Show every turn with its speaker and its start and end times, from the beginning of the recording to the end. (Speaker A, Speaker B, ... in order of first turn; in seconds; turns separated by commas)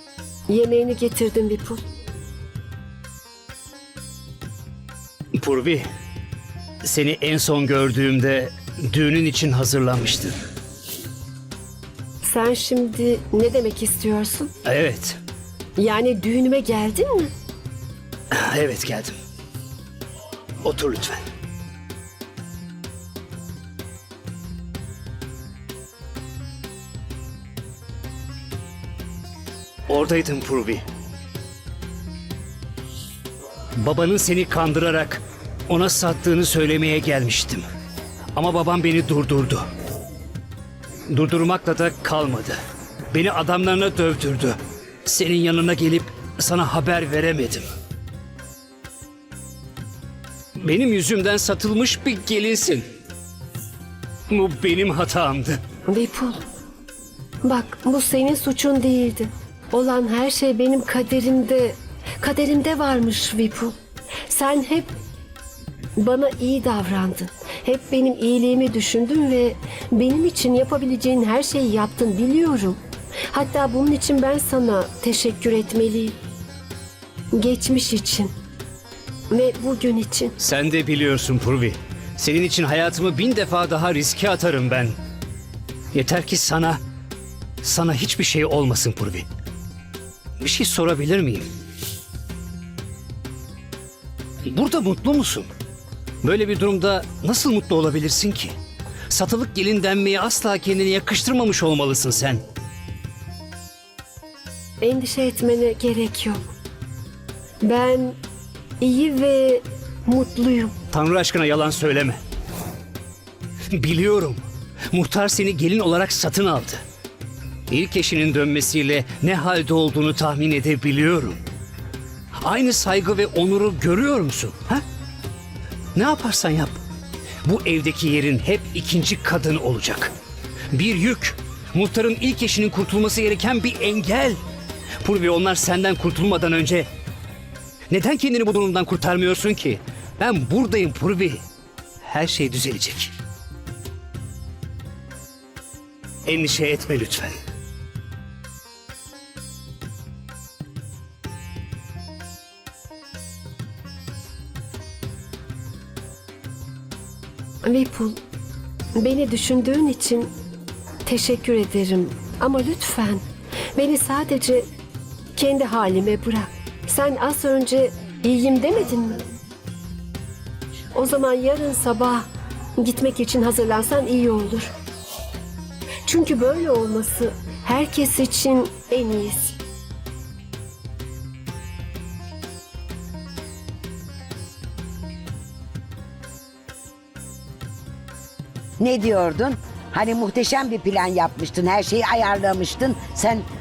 Speaker A: 0.5-1.8, Speaker B: 5.4-5.8, Speaker B: 6.8-10.3, Speaker A: 12.2-14.5, Speaker B: 14.7-15.2, Speaker A: 15.8-17.3, Speaker B: 18.4-19.2, Speaker B: 20.6-21.2, Speaker B: 29.9-30.8, Speaker B: 33.8-37.6, Speaker B: 38.4-39.6, Speaker B: 41.1-42.6, Speaker B: 43.1-47.7, Speaker B: 50.6-52.9, Speaker B: 54.3-55.6, Speaker A: 55.9-56.4, Speaker A: 57.4-63.7, Speaker A: 64.3-64.9, Speaker A: 66.0-72.8, Speaker A: 73.3-76.2, Speaker A: 77.3-78.3, Speaker A: 79.3-80.3, Speaker B: 80.4-85.0, Speaker B: 85.9-86.8, Speaker B: 87.6-89.3, Speaker B: 90.4-91.5, Speaker B: 94.5-95.5, Speaker B: 96.2-98.5, Speaker B: 99.1-102.4, Speaker A: 104.8-106.4, Speaker A: 107.6-108.2, Speaker A: 108.8-110.7, Speaker B: 110.9-112.2, Speaker B: 113.7-116.8, Speaker B: 117.7-121.4, Speaker B: 122.4-124.8, Speaker B: 126.0-126.8, Speaker B: 127.4-130.1, Speaker B: 130.7-134.4, Speaker B: 135.0-136.9, Speaker B: 137.9-141.4, Speaker B: 142.0-143.1, Speaker B: 146.3-147.4, Speaker A: 157.6-158.2, Speaker A: 159.0-160.3, Speaker A: 161.1-163.2, Speaker A: 163.8-164.6, Speaker A: 165.4-169.2, Speaker A: 170.9-172.2, Speaker A: 172.8-174.7, Speaker A: 176.1-179.6, Speaker C: 188.8-193.4